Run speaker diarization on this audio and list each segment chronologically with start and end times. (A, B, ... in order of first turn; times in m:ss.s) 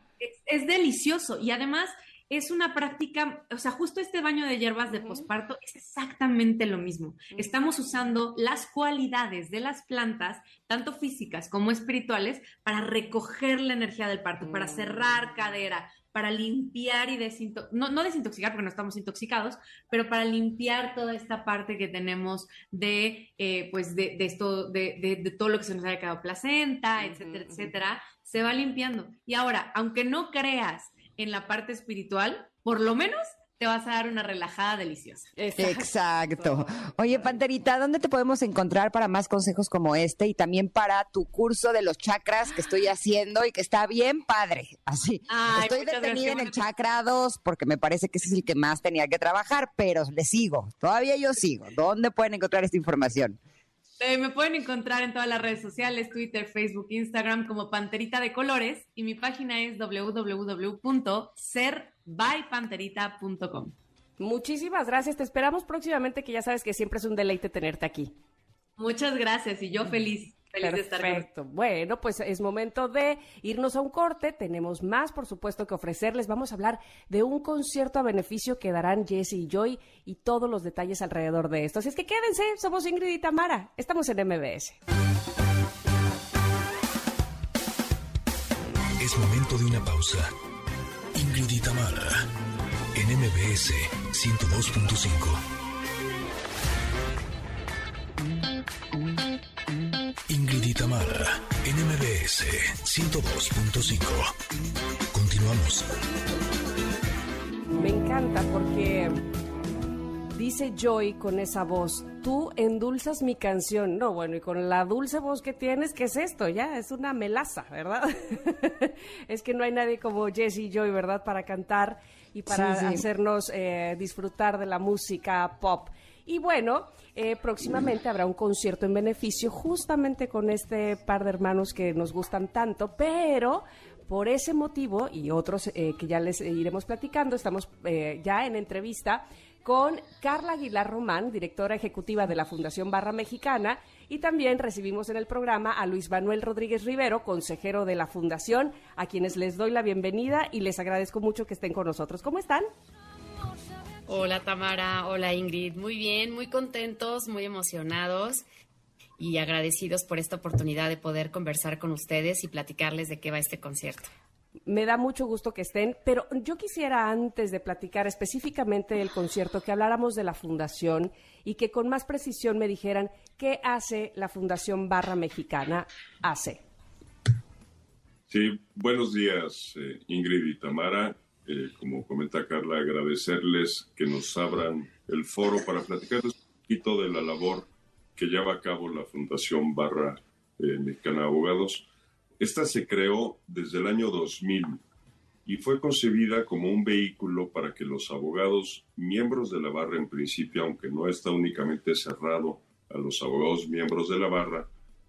0:00.2-0:35.3 A
0:04.9-0:05.3 B
0:14.4-0:15.1 B
0:27.2-0:27.6 B
0:35.4-0:36.8 B
0:35.6-0:53.4 C
0:45.3-0:46.6 A
0:54.0-1:03.7 A
1:04.2-1:08.1 B
1:08.8-1:11.3 A
1:10.6-1:24.8 B
1:29.0-1:30.3 D
1:31.1-1:32.3 D
1:32.9-1:35.4 D
1:40.3-1:44.3 D
1:45.1-1:45.9 D
1:47.7-1:49.2 B
1:50.3-2:32.7 B
2:02.5-2:03.0 C
2:34.1-2:38.4 E
2:39.2-2:44.1 E
2:44.7-2:56.6 B
2:58.3-3:11.9 F
3:12.4-3:14.8 F
3:15.4-3:24.7 F